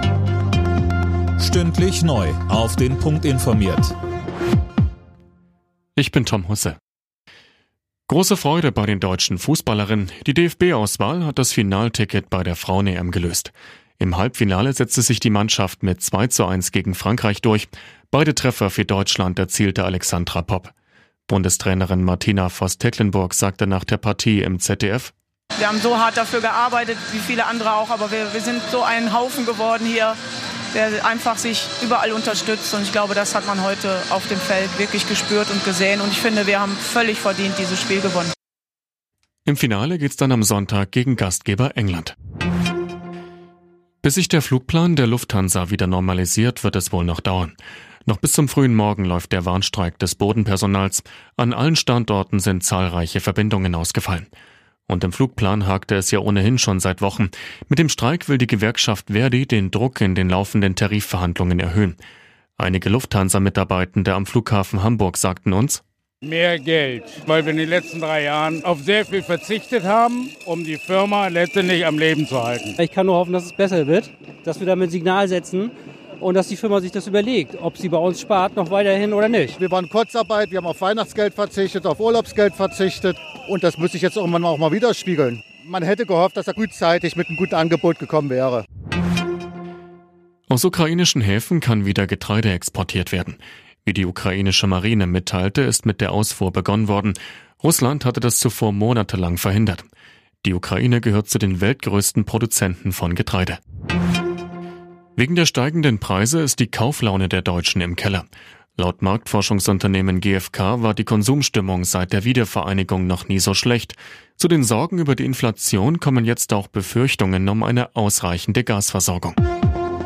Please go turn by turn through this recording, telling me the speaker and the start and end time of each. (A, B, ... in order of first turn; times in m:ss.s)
0:01.4-0:03.9 A
0:06.0-0:06.8 B
0:08.1-0:20.7 B
0:21.3-0:25.1 B
0:25.6-0:30.2 C
0:30.7-0:38.3 C
0:39.4-0:42.1 B
0:44.0-0:54.3 B
0:54.9-1:02.0 B
1:02.6-1:05.8 B
1:06.2-1:12.8 D
1:12.8-1:19.6 E
1:19.6-1:28.6 F
1:30.5-1:39.9 B
1:40.4-1:43.6 B
1:45.2-1:59.4 B